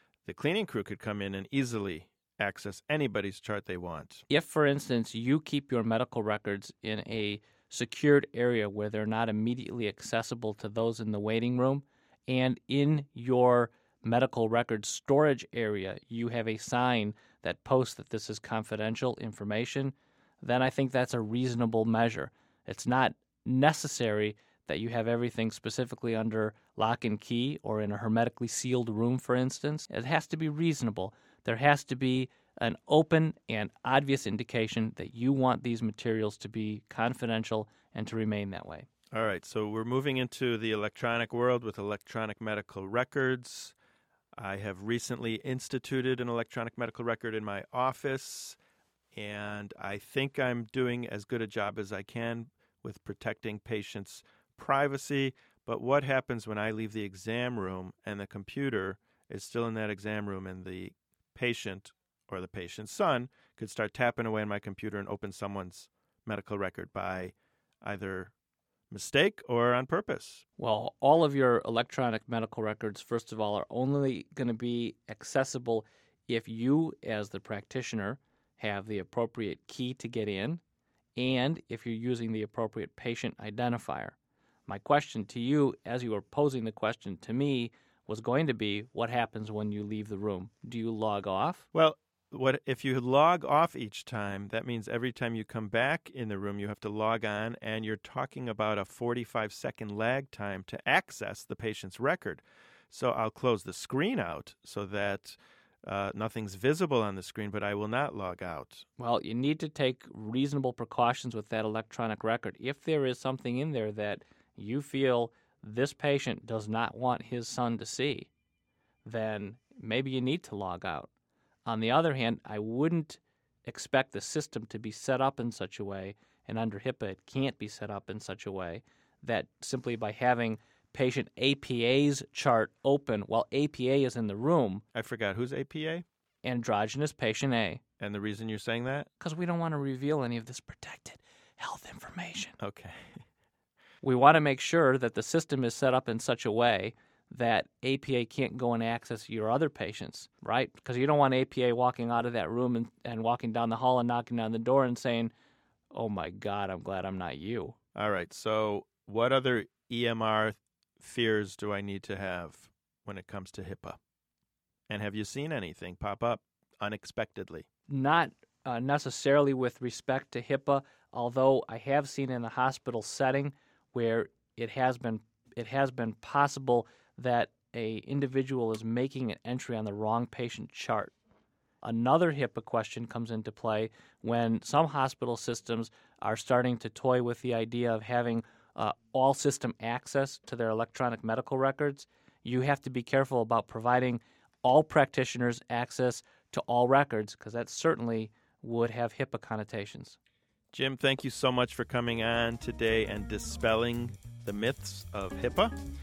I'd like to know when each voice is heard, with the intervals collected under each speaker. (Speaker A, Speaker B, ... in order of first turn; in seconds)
Speaker A: 0.3-4.2, 39.1-43.8, 44.4-48.6, 49.1-68.3, 68.9-70.5, 91.7-108.9, 134.9-136.1, 138.0-139.1, 142.6-143.2, 157.9-164.0, 164.9-167.7, 200.7-205.7
Speaker B: 4.3-38.9, 70.6-80.6, 81.2-84.2, 84.7-91.7, 109.0-118.3, 119.0-121.1, 121.7-134.8, 136.4-137.8, 139.2-142.6, 144.0-155.3, 155.9-157.8, 167.9-181.1, 181.8-200.2